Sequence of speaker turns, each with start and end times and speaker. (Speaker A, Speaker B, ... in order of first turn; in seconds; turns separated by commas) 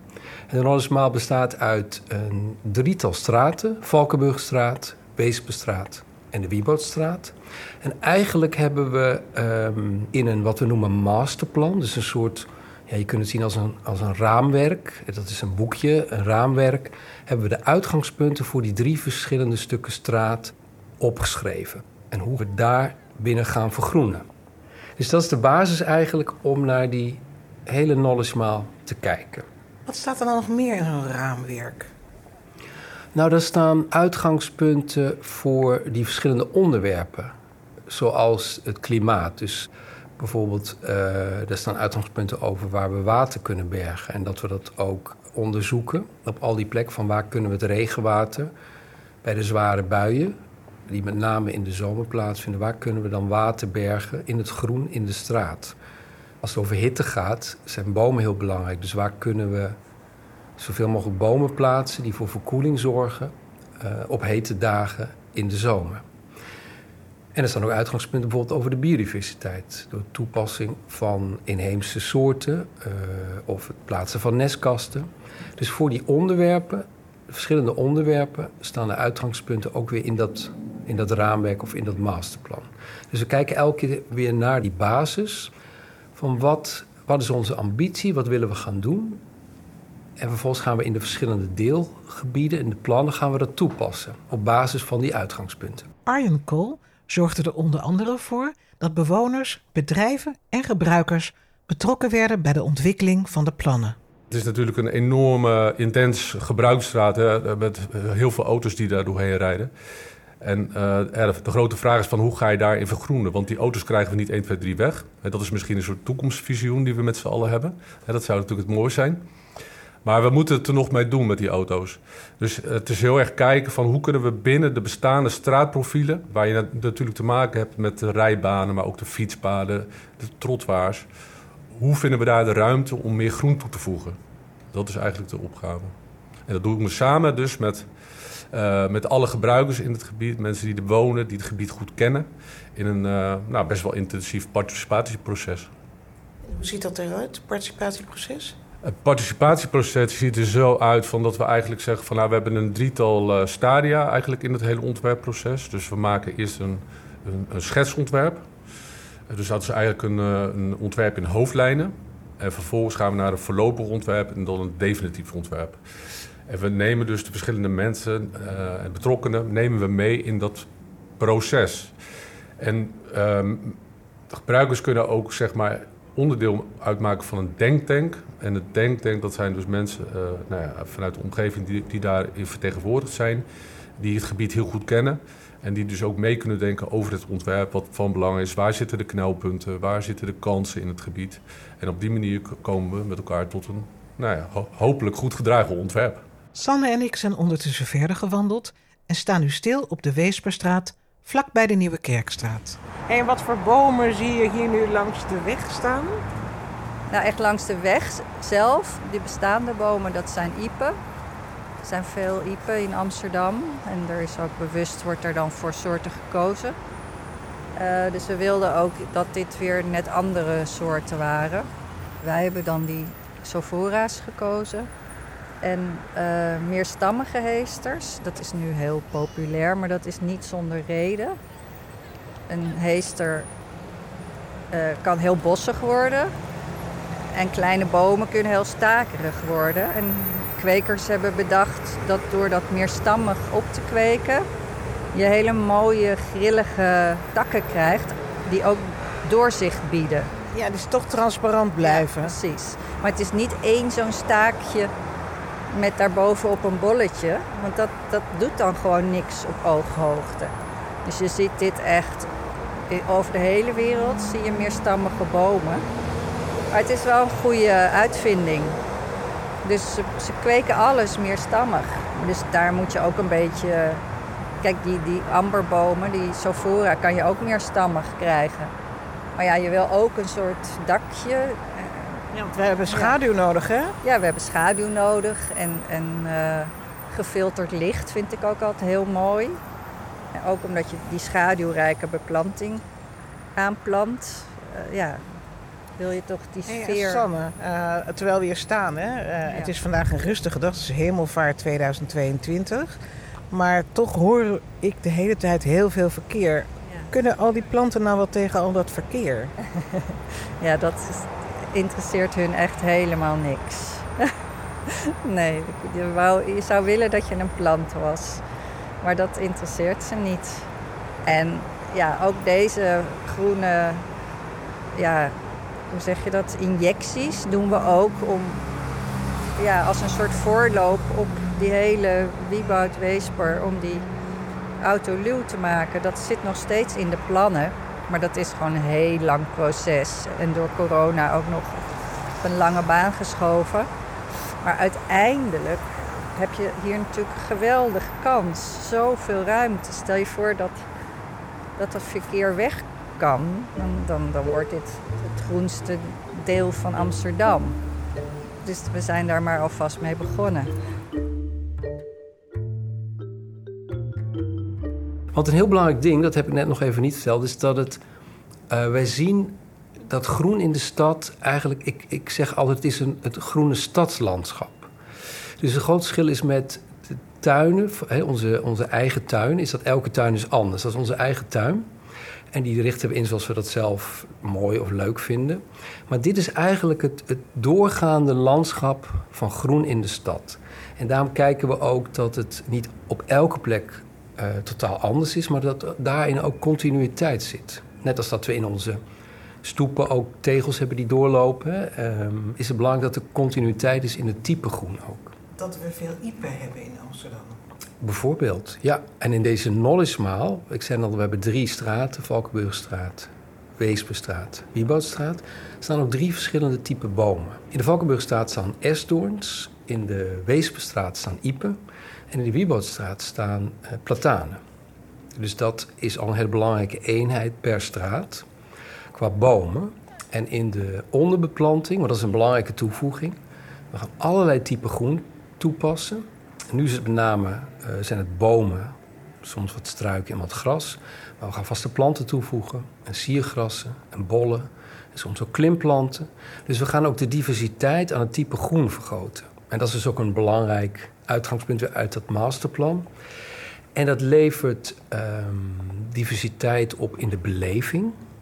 Speaker A: 0.5-24.2, Speaker A: 25.0-29.4, Speaker B: 29.9-31.9, Speaker A: 33.1-37.3, Speaker A: 37.9-48.5, Speaker A: 49.2-50.4, Speaker A: 50.9-55.8, Speaker A: 56.4-59.8, Speaker A: 60.6-66.0, Speaker A: 67.3-85.5, Speaker A: 86.1-89.2, Speaker A: 90.2-95.9, Speaker B: 96.0-104.0, Speaker C: 104.3-109.7, Speaker C: 110.4-119.2, Speaker C: 120.0-131.1, Speaker C: 131.7-134.2, Speaker C: 134.7-135.9, Speaker C: 136.5-137.8, Speaker C: 138.5-145.7, Speaker B: 146.4-148.5, Speaker C: 148.8-158.4, Speaker C: 159.3-165.8, Speaker C: 166.5-170.7, Speaker C: 171.2-171.9, Speaker C: 172.6-173.8, Speaker C: 174.3-183.4, Speaker C: 184.0-196.2, Speaker B: 196.5-206.2, Speaker D: 207.1-210.9, Speaker D: 211.8-216.8, Speaker D: 217.8-221.7, Speaker D: 222.2-224.9, Speaker D: 225.6-231.4, Speaker D: 232.5-233.5, Speaker D: 234.7-236.3, Speaker D: 237.3-244.4, Speaker D: 245.1-250.3, Speaker B: 250.5-252.3, Speaker D: 251.8-254.9, Speaker D: 255.7-260.5, Speaker D: 261.0-262.3, Speaker D: 262.9-265.9, Speaker D: 266.7-268.8, Speaker D: 269.6-274.0, Speaker D: 274.6-278.7, Speaker D: 279.4-282.2, Speaker B: 282.3-283.9, Speaker D: 282.9-283.2, Speaker D: 284.0-289.6, Speaker D: 290.3-292.8, Speaker D: 293.6-295.2, Speaker D: 296.0-297.3, Speaker B: 296.7-309.5, Speaker D: 309.8-314.2, Speaker D: 314.9-318.4, Speaker D: 319.0-320.7, Speaker D: 321.2-324.1, Speaker D: 324.9-325.3, Speaker D: 325.9-328.6, Speaker D: 329.6-334.1, Speaker D: 334.8-341.9, Speaker D: 342.4-343.9, Speaker D: 344.6-350.8, Speaker D: 351.8-357.8, Speaker D: 358.6-360.7, Speaker A: 365.3-368.0, Speaker A: 368.7-374.9, Speaker A: 375.6-381.9, Speaker A: 382.5-399.0, Speaker A: 399.6-405.3, Speaker B: 405.6-407.6, Speaker A: 408.0-424.6, Speaker A: 425.4-428.4, Speaker A: 429.1-433.4, Speaker A: 433.9-453.1, Speaker A: 453.9-458.1